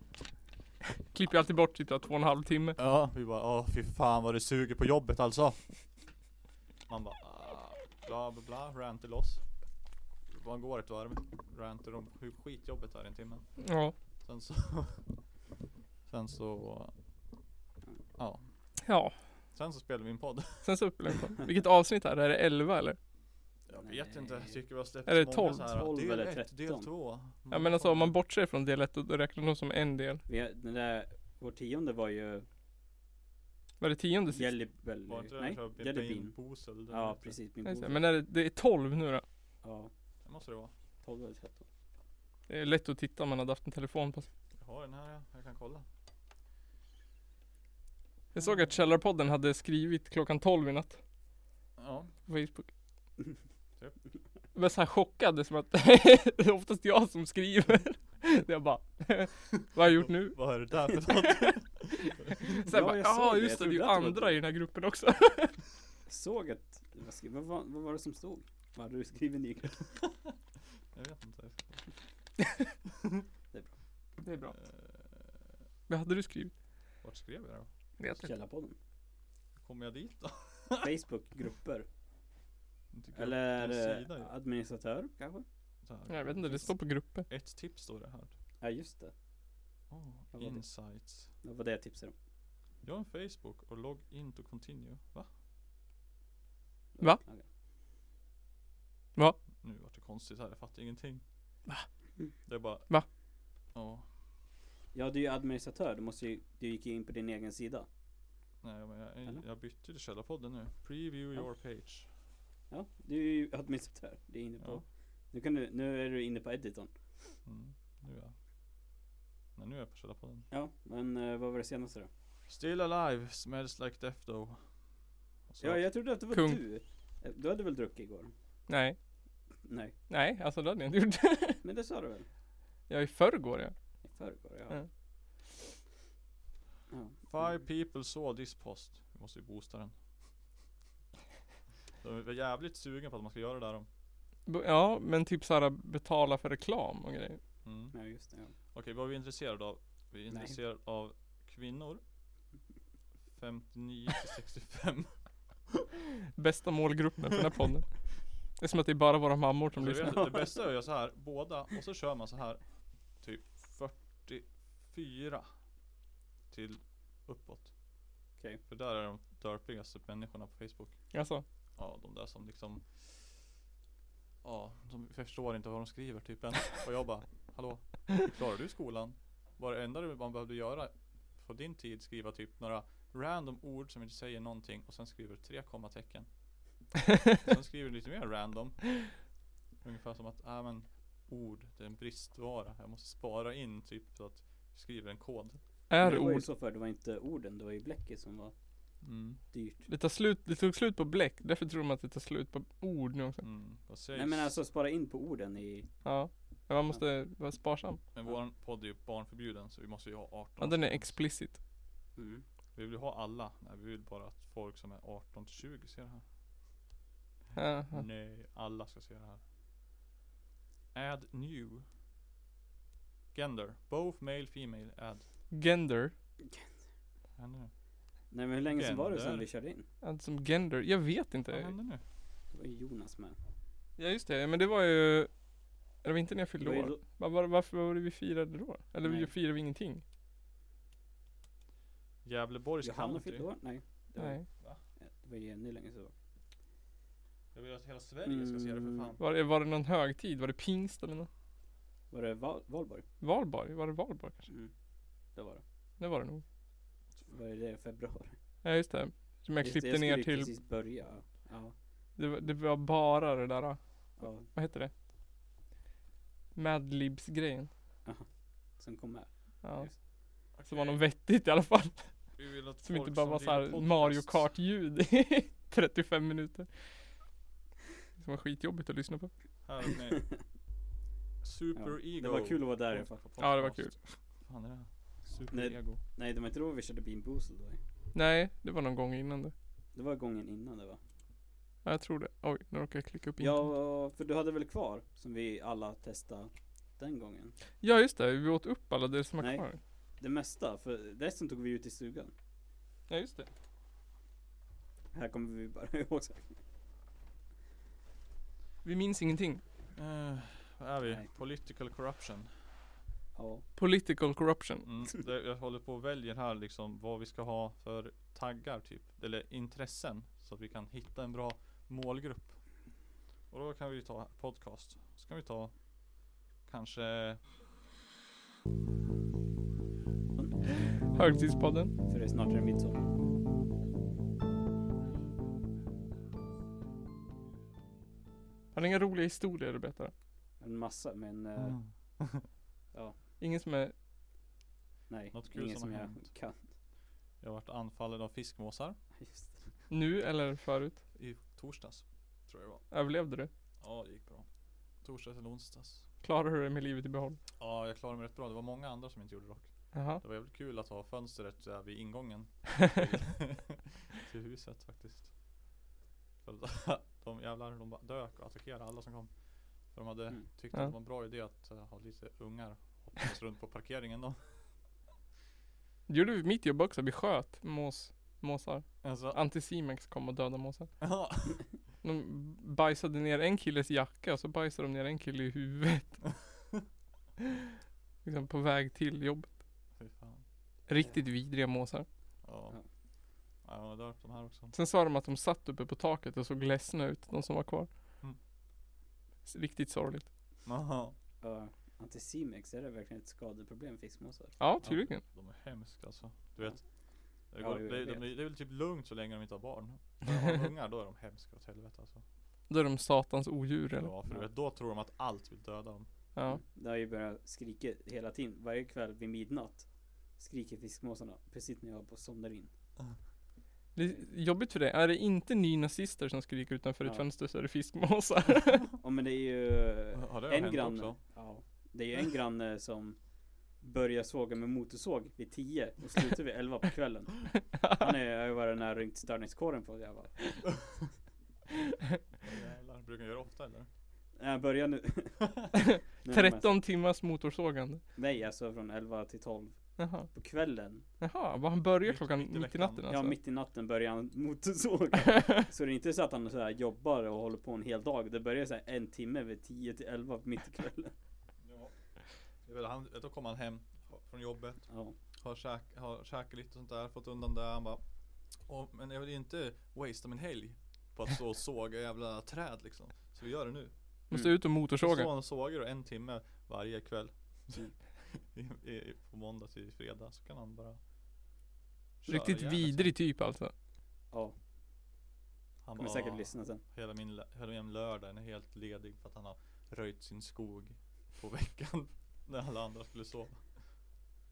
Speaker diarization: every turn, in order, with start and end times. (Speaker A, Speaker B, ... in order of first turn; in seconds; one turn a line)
Speaker A: 1.1-2.8
Speaker B: 2.8-5.7
Speaker B: 6.9-9.4
Speaker B: 10.3-13.7
Speaker A: 13.6-13.9
Speaker B: 14.2-15.0
Speaker B: 16.1-16.9
Speaker B: 18.1-18.4
Speaker A: 18.9-19.2
Speaker B: 19.5-20.7
Speaker A: 20.6-23.0
Speaker B: 23.7-28.2
Speaker C: 23.7-24.6
Speaker A: 25.1-25.7
Speaker C: 25.6-26.9
Speaker A: 27.5-30.2
Speaker C: 30.3-32.5
Speaker A: 33.8-34.5
Speaker C: 34.3-36.4
Speaker B: 35.1-37.4
Speaker C: 36.9-38.1
Speaker A: 37.6-39.2
Speaker C: 39.6-39.9
Speaker B: 40.2-40.7
Speaker C: 41.0-41.7
Speaker A: 42.5-44.3
Speaker B: 44.6-45.9
Speaker A: 48.3-51.0
Speaker B: 51.8-52.1
Speaker A: 52.3-52.7
Speaker A: 54.5-65.6
Speaker B: 59.8-62.7
Speaker C: 62.7-64.4
Speaker C: 66.1-70.0
Speaker B: 70.9-71.9
Speaker C: 73.5-73.8
Speaker A: 74.2-74.6
Speaker B: 74.5-75.4
Speaker A: 75.9-76.5
Speaker B: 77.0-77.7
Speaker A: 78.0-78.3
Speaker C: 78.2-78.8
Speaker B: 79.6-80.9
Speaker C: 80.8-81.9
Speaker B: 82.9-84.3
Speaker C: 83.1-85.5
Speaker B: 85.8-88.3
Speaker A: 86.1-87.3
Speaker C: 88.6-89.1
Speaker B: 89.9-91.3
Speaker C: 90.3-92.1
Speaker B: 92.8-95.3
Speaker C: 97.0-97.5
Speaker B: 99.6-101.2
Speaker B: 102.5-102.9
Speaker B: 103.7-104.1
Speaker C: 104.9-107.9
Speaker B: 108.6-112.1
Speaker C: 112.7-116.9
Speaker B: 117.5-118.3
Speaker B: 119.6-120.5
Speaker C: 120.5-122.1
Speaker B: 122.5-124.8
Speaker B: 125.5-125.9
Speaker C: 125.6-128.3
Speaker A: 126.3-126.6
Speaker A: 128.7-129.0
Speaker C: 129.6-129.9
Speaker A: 130.1-131.6
Speaker C: 131.6-132.3
Speaker A: 132.9-133.8
Speaker C: 134.0-134.8
Speaker C: 136.9-137.6
Speaker B: 137.3-140.0
Speaker B: 142.0-143.9
Speaker A: 144.5-147.4
Speaker B: 147.6-147.9
Speaker C: 147.9-148.5
Speaker B: 148.7-152.0
Speaker B: 153.3-155.8
Speaker A: 156.4-160.3
Speaker B: 159.8-162.6
Speaker C: 160.0-160.6
Speaker B: 163.2-165.5
Speaker B: 166.5-167.8
Speaker B: 168.7-171.2
Speaker A: 171.1-171.4
Speaker B: 171.8-173.3
Speaker B: 174.4-186.3
Speaker B: 187.4-195.6
Speaker A: 195.9-196.4
Speaker C: 196.0-198.5
Speaker B: 199.0-199.4
Speaker C: 199.5-199.9
Speaker A: 199.9-203.4
Speaker B: 203.4-204.6
Speaker C: 204.1-205.9
Speaker A: 206.1-208.0
Speaker B: 208.1-211.2
Speaker A: 210.6-211.6
Speaker C: 212.2-212.4
Speaker B: 212.8-216.2
Speaker A: 217.6-218.0
Speaker B: 217.9-219.4
Speaker B: 220.9-221.9
Speaker B: 223.3-225.2
Speaker A: 225.5-226.2
Speaker B: 227.4-227.7
Speaker C: 228.3-229.9
Speaker B: 228.7-229.4
Speaker A: 230.0-231.7
Speaker B: 231.5-232.0
Speaker C: 232.5-233.4
Speaker A: 234.0-235.3
Speaker A: 236.0-240.0
Speaker C: 236.6-237.0
Speaker C: 239.0-239.3
Speaker B: 242.2-243.5
Speaker C: 242.8-246.1
Speaker A: 244.2-244.5
Speaker B: 247.5-249.2
Speaker C: 248.2-249.2
Speaker A: 249.2-251.3
Speaker C: 252.1-253.1
Speaker A: 253.2-254.5
Speaker C: 255.3-255.6
Speaker A: 256.0-256.4
Speaker C: 257.3-258.4
Speaker A: 258.6-260.5
Speaker C: 259.6-261.8
Speaker A: 262.2-264.9
Speaker C: 264.2-264.5
Speaker A: 266.6-267.7
Speaker C: 268.1-270.0
Speaker A: 269.6-269.9
Speaker A: 270.5-277.0
Speaker B: 270.6-271.0
Speaker B: 272.4-274.5
Speaker A: 278.2-279.3
Speaker B: 279.6-280.3
Speaker B: 281.4-286.0
Speaker C: 281.8-283.2
Speaker A: 283.4-284.0
Speaker C: 285.5-287.8
Speaker A: 288.1-289.5
Speaker C: 289.9-291.0
Speaker A: 291.9-293.7
Speaker C: 293.4-297.6
Speaker A: 297.8-299.8
Speaker C: 299.4-299.7
Speaker C: 300.2-302.3
Speaker A: 303.1-303.5
Speaker C: 305.1-306.6
Speaker A: 308.8-309.6
Speaker B: 309.9-312.5
Speaker C: 313.4-313.7
Speaker A: 313.8-314.9
Speaker B: 314.9-322.6
Speaker B: 323.5-325.9
Speaker B: 326.6-327.4
Speaker A: 330.7-331.9
Speaker C: 332.1-333.1
Speaker A: 338.7-340.1
Speaker C: 340.6-341.8
Speaker B: 341.6-342.4
Speaker A: 343.4-343.9
Speaker C: 345.1-346.7
Speaker B: 345.3-346.3
Speaker B: 347.4-349.0
Speaker C: 349.2-349.7
Speaker A: 349.9-351.0
Speaker B: 351.1-352.9
Speaker A: 352.9-353.5
Speaker B: 353.8-354.5
Speaker B: 355.0-356.1
Speaker A: 356.2-357.4
Speaker B: 357.6-365.3
Speaker A: 359.9-360.2
Speaker B: 366.4-374.6
Speaker A: 376.1-380.9
Speaker B: 379.0-379.4
Speaker B: 381.0-381.7
Speaker A: 382.0-386.3
Speaker A: 388.2-389.6
Speaker B: 390.0-390.4
Speaker A: 390.9-392.1
Speaker B: 392.4-392.8
Speaker B: 393.6-394.7
Speaker A: 394.7-397.9
Speaker A: 399.5-400.3
Speaker B: 400.6-401.1
Speaker C: 401.4-404.6
Speaker A: 404.6-405.2
Speaker B: 404.8-406.8
Speaker B: 407.4-412.2
Speaker C: 407.6-408.2
Speaker A: 412.7-414.1
Speaker B: 414.0-416.1
Speaker A: 416.4-416.6
Speaker C: 416.5-422.7
Speaker A: 423.9-428.9
Speaker C: 429.0-433.2
Speaker B: 430.1-431.2
Speaker C: 433.8-440.6
Speaker A: 437.8-438.0
Speaker B: 442.4-443.9
Speaker C: 444.4-446.8
Speaker A: 445.8-448.0
Speaker C: 448.1-451.1
Speaker A: 450.0-450.3
Speaker A: 451.2-453.4
Speaker B: 452.0-453.1
Speaker C: 453.1-461.1
Speaker B: 461.6-461.9
Speaker B: 462.6-468.0
Speaker C: 464.9-465.2
Speaker B: 468.6-473.9
Speaker A: 474.3-475.3
Speaker C: 474.3-474.6
Speaker B: 475.0-481.0
Speaker B: 482.2-483.1
Speaker A: 482.3-483.7
Speaker C: 484.3-484.6
Speaker B: 485.8-493.6
Speaker C: 485.9-486.8